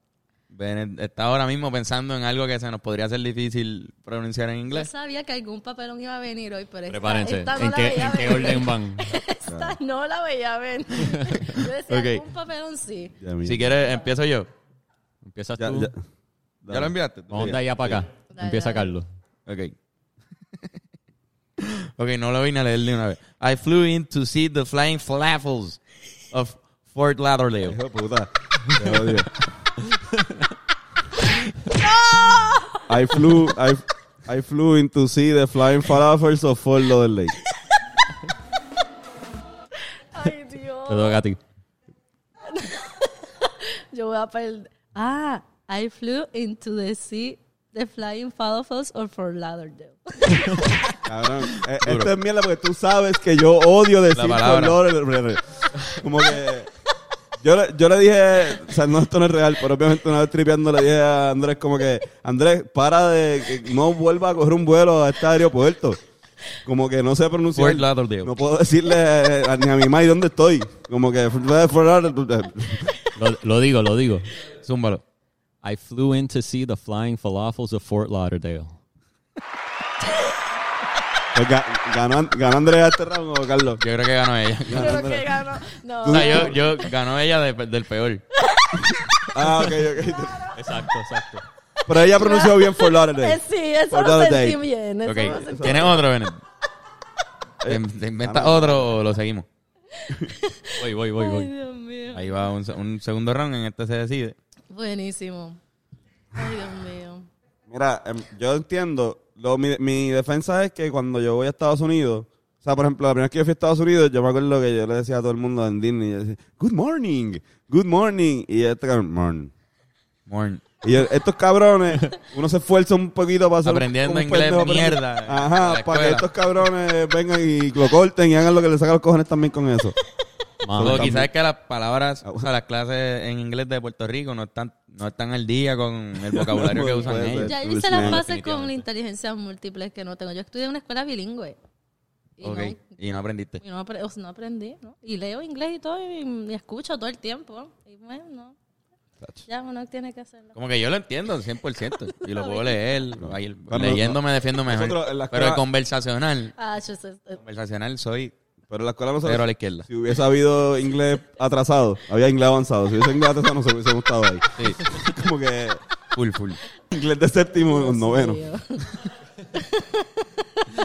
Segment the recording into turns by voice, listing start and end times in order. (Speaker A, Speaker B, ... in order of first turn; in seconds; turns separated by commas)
Speaker A: 0.5-4.9, Speaker B: 4.7-13.1, Speaker C: 6.9-9.2, Speaker D: 9.5-9.8, Speaker A: 11.9-12.2, Speaker D: 13.2-13.7, Speaker A: 13.4-14.5, Speaker B: 13.7-14.1, Speaker C: 15.2-15.9, Speaker D: 15.6-16.0, Speaker D: 16.6-18.0, Speaker A: 16.7-17.9, Speaker C: 17.3-19.1, Speaker B: 18.3-18.9, Speaker A: 19.5-19.7, Speaker A: 21.6-27.8, Speaker D: 27.6-29.3, Speaker B: 32.0-32.8, Speaker D: 32.9-37.4, Speaker B: 40.1-41.2, Speaker C: 40.9-41.4, Speaker B: 42.4-51.0, Speaker D: 51.0-56.7, Speaker A: 51.8-52.1, Speaker A: 54.1-54.8, Speaker D: 57.4-66.0, Speaker D: 66.6-72.9, Speaker A: 67.5-68.3, Speaker C: 73.1-74.3, Speaker A: 74.6-75.0, Speaker C: 75.6-78.8, Speaker D: 81.3-83.8, Speaker A: 83.8-85.1, Speaker D: 84.7-85.3, Speaker B: 84.8-86.8, Speaker D: 86.0-86.6, Speaker A: 86.1-88.2, Speaker B: 88.5-89.0, Speaker D: 89.3-90.5, Speaker C: 90.5-91.4, Speaker D: 91.8-94.6, Speaker B: 92.0-96.0, Speaker A: 95.0-96.4, Speaker D: 95.1-96.0, Speaker D: 97.6-99.0, Speaker A: 97.6-99.5, Speaker B: 99.9-102.5, Speaker C: 100.8-101.5, Speaker A: 102.1-104.3, Speaker B: 104.7-105.6, Speaker B: 106.3-107.3, Speaker D: 107.7-119.5, Speaker A: 120.3-120.6, Speaker D: 120.8-129.9, Speaker A: 123.6-126.2, Speaker C: 130.6-131.2, Speaker D: 130.8-131.3, Speaker A: 130.8-137.5, Speaker D: 136.3-138.2, Speaker B: 137.4-141.6, Speaker C: 137.9-138.8, Speaker B: 142.4-143.0, Speaker A: 142.4-143.6, Speaker B: 143.6-148.5, Speaker B: 149.4-150.6, Speaker A: 150.5-156.5, Speaker B: 152.3-153.0, Speaker D: 153.2-155.6, Speaker B: 156.6-157.4, Speaker A: 157.4-158.3, Speaker D: 158.7-165.8, Speaker A: 159.2-159.9, Speaker A: 164.6-164.8, Speaker A: 166.1-166.6, Speaker D: 166.9-168.4, Speaker B: 167.6-170.6